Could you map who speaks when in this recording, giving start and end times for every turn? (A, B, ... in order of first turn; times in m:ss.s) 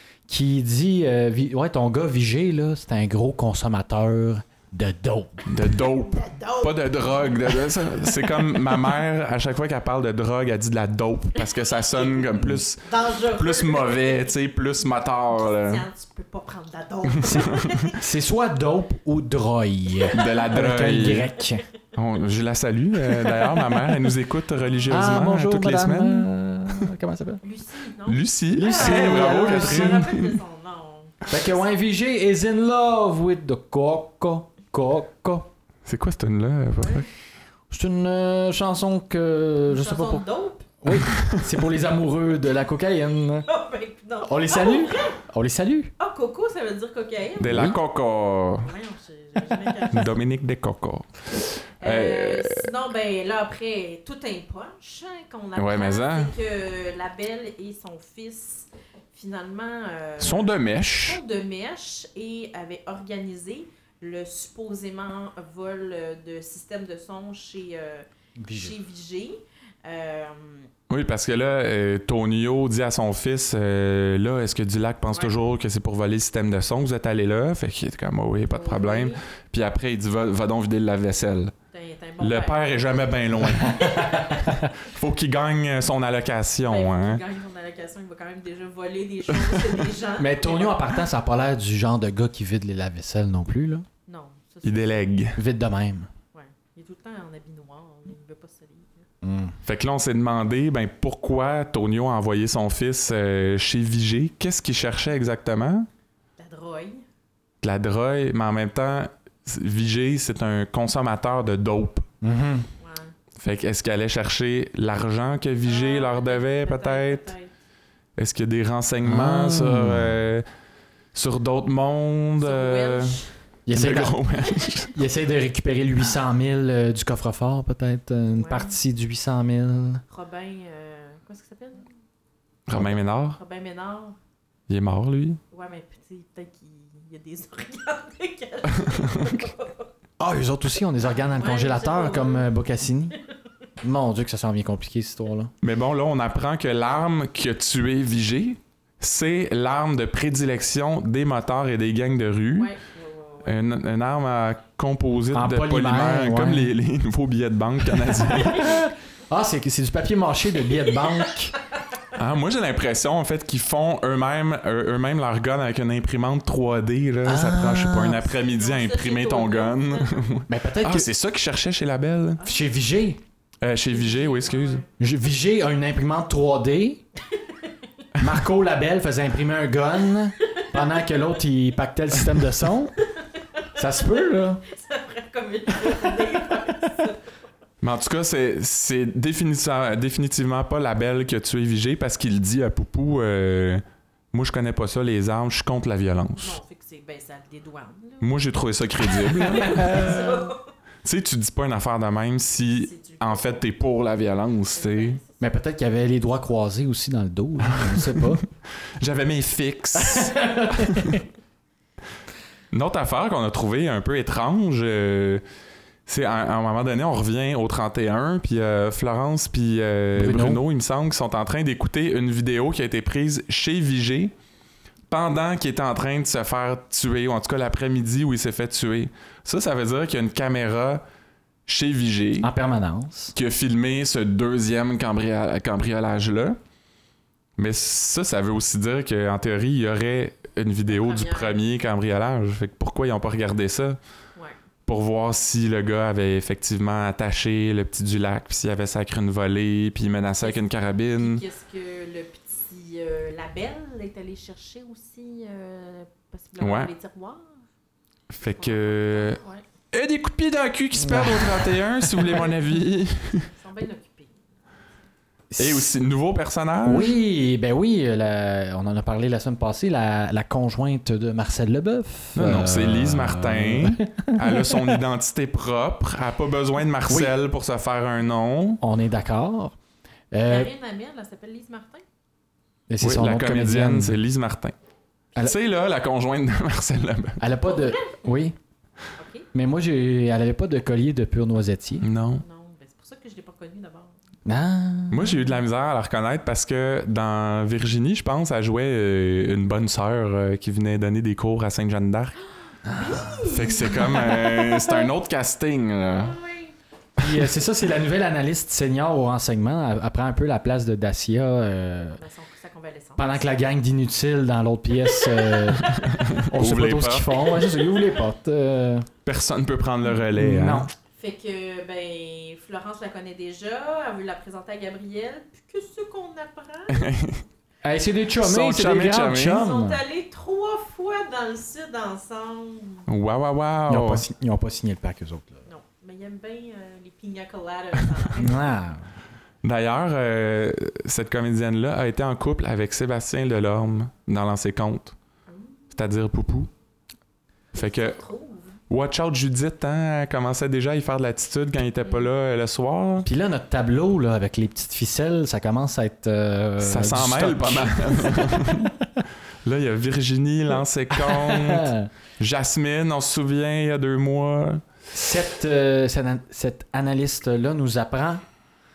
0:00.3-0:05.5 A
0:05.5-0:15.8 B
0:05.7-0:08.0 C
0:11.4-0:14.4 C
0:15.3-0:18.0 C
0:17.1-0:17.9 B
0:17.2-0:21.6 A
0:20.1-0:21.3 B
0:21.9-0:26.3 B
0:24.6-0:25.0 C
0:24.9-0:27.4 A
0:27.4-0:31.6 C
0:28.1-0:30.3 B
0:28.5-0:30.1 A
0:31.3-0:35.5 A
0:35.8-0:37.1 B
0:36.8-0:37.0 C
0:37.7-0:40.2 A
0:39.6-0:40.7 C
0:40.8-0:43.5 A
0:40.9-0:41.5 B
0:43.5-0:45.2 C
0:44.2-0:45.9 A
0:46.0-0:47.7 C
0:47.4-0:48.7 B
0:47.4-0:47.8 A
0:48.6-0:50.2 C
0:49.9-0:52.6 B
0:51.8-1:10.7 C
0:55.6-0:56.3 B
1:00.2-1:01.2 B
1:08.4-1:08.7 A
1:10.9-1:21.5 B
1:18.5-1:19.2 C
1:21.7-1:23.0 C
1:22.2-1:27.2 B
1:23.6-1:24.6 C
1:23.6-1:24.3 A
1:26.7-1:31.0 C
1:30.2-1:33.8 A
1:34.1-1:35.0 C
1:34.6-1:35.4 B
1:35.4-1:36.1 A
1:36.3-1:39.0 C
1:39.2-1:39.5 A
1:39.6-1:45.9 B
1:46.4-1:47.0 C
1:47.6-1:52.1 B
1:52.2-1:52.7 A
1:52.8-1:53.1 C
1:53.4-1:57.3 B
1:55.6-1:57.5 C
1:58.2-2:00.4 B
1:59.0-2:00.2 A
2:01.1-2:03.2 B
2:02.4-2:03.3 C
2:03.6-2:04.2 A
2:03.7-2:04.9 B
2:04.4-2:04.8 C
2:04.9-2:10.0 A
2:08.4-2:08.8 C
2:10.1-2:11.9 C
2:12.7-2:13.4 B
2:13.4-2:14.2 C
2:14.7-2:15.4 B
2:15.5-2:19.9 C
2:18.8-2:19.3 B
2:20.2-2:23.2 A
2:21.2-2:22.5 C
2:23.8-2:25.5 A
2:25.6-2:32.7 B
2:32.6-2:33.6 C
2:33.4-2:38.8 B
2:35.3-2:36.7 A
2:38.3-2:38.6 C
2:38.3-2:41.6 A
2:42.1-2:52.4 B
2:47.2-2:48.3 A
2:48.3-2:50.3 C
2:50.5-2:51.1 A
2:52.4-2:52.7 C
2:52.4-2:53.2 A
2:53.6-2:54.8 B
2:53.9-2:54.9 C
2:55.0-2:57.0 A
2:57.4-2:57.7 C
2:58.2-3:03.0 A
3:03.8-3:04.6 A
3:03.8-3:07.3 C
3:07.8-3:16.6 B
3:16.4-3:20.7 C
3:18.2-3:20.2 B
3:19.3-3:20.5 A
3:21.0-3:25.2 B
3:22.8-3:23.6 C
3:24.7-3:25.4 C
3:25.4-3:28.4 A
3:27.7-3:28.4 B
3:29.0-3:31.2 B
3:30.0-3:31.2 A
3:32.7-3:35.4 B
3:36.0-3:44.3 B
3:40.2-3:40.6 A
3:45.1-3:51.0 B
3:51.7-3:52.5 B
3:52.4-3:53.3 A
3:53.3-3:56.6 B
3:57.6-4:04.0 B
4:00.9-4:01.6 C
4:04.8-4:11.4 B
4:10.4-4:17.6 C
4:16.6-4:16.9 B
4:18.3-4:19.4 B
4:18.6-4:19.6 C
4:19.9-4:23.5 B
4:21.0-4:22.4 A
4:23.3-4:24.4 C
4:25.5-4:25.9 A
4:25.6-4:27.2 B
4:26.8-4:35.0 A
4:32.3-4:38.8 B
4:37.1-4:37.3 A
4:38.8-4:39.8 A
4:40.3-4:40.7 A
4:40.4-4:42.0 C
4:42.9-4:44.2 A
4:43.0-4:44.7 B
4:45.4-4:47.4 B
4:47.4-4:48.6 A
4:47.6-4:48.2 C
4:49.2-4:49.5 C
4:49.5-4:52.0 A
4:52.0-4:52.4 B
4:52.4-4:54.2 C
4:54.4-4:55.4 A
4:55.1-5:02.3 B
5:02.7-5:05.1 C
5:02.8-5:03.4 A
5:03.4-5:06.3 B
5:06.0-5:06.7 C
5:07.2-5:12.2 A
5:12.2-5:13.4 C
5:13.2-5:19.1 A
5:15.2-5:16.3 C
5:15.8-5:17.5 B
5:17.7-5:18.1 C
5:19.2-5:20.9 B
5:20.3-5:20.9 A
5:21.2-5:27.1 C
5:26.9-5:27.4 B
5:27.8-5:30.0 A
5:28.4-5:29.6 B
5:29.5-5:33.1 C
5:33.1-5:34.2 B
5:33.9-5:35.6 A
5:35.7-5:38.7 C
5:38.4-5:39.0 A
5:39.6-5:45.1 B
5:45.5-5:45.8 C
5:45.9-5:46.7 B
5:47.7-5:48.2 B
5:47.8-5:48.8 C
5:48.9-5:53.3 B
5:52.0-5:52.3 C
5:53.2-5:58.9 A
5:56.8-5:58.9 B
5:59.6-6:04.8 B
6:01.1-6:02.1 A
6:05.1-6:08.4 A